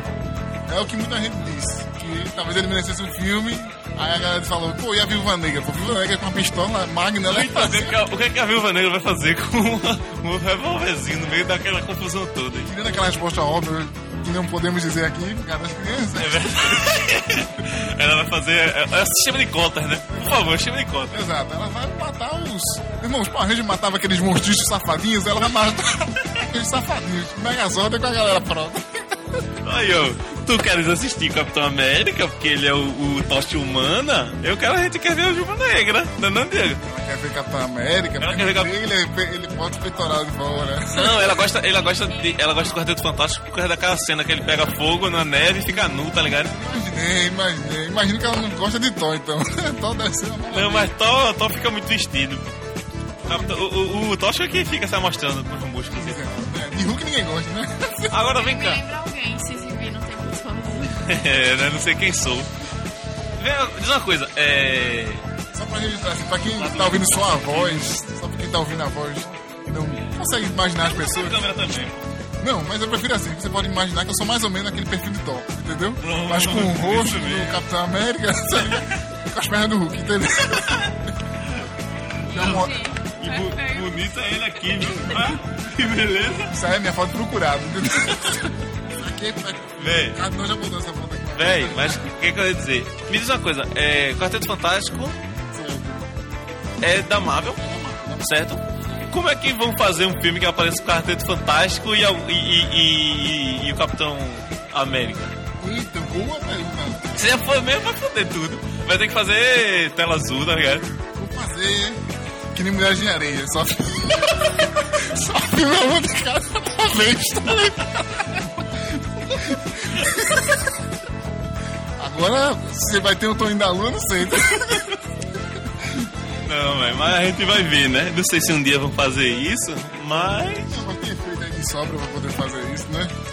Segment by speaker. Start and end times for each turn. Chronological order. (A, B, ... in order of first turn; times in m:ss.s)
0:00.7-0:08.0 A
0:07.2-0:12.7 B
0:12.6-0:16.8 A
0:16.2-0:21.2 B
0:20.1-0:20.6 A
0:21.1-0:29.2 A
0:29.6-0:36.8 B
0:36.8-0:41.4 A
0:38.2-0:38.7 B
0:40.9-0:46.5 B
0:45.7-0:50.9 A
0:50.5-0:52.5 B
0:53.2-0:53.6 A
0:53.2-0:56.2 B
0:55.9-0:58.1 A
0:58.1-0:58.8 B
0:58.3-1:01.0 C
1:01.0-1:02.5 B
1:03.4-1:05.2 B
1:05.5-1:11.6 A
1:06.5-1:08.0 B
1:10.8-1:12.1 B
1:12.4-1:20.9 A
1:16.0-1:17.6 B
1:22.3-1:22.8 A
1:22.3-1:26.5 B
1:22.4-1:24.0 C
1:26.5-1:32.0 A
1:29.8-1:30.2 B
1:31.3-1:35.2 B
1:35.5-1:36.1 A
1:36.8-1:37.6 B
1:37.6-1:38.3 A
1:38.2-1:45.3 B
1:45.6-1:47.3 A
1:47.1-1:50.8 B
1:51.1-1:52.0 A
1:52.5-1:58.7 A
1:59.2-2:00.6 A
2:02.0-2:05.0 A
2:06.4-2:10.8 B
2:10.1-2:13.1 A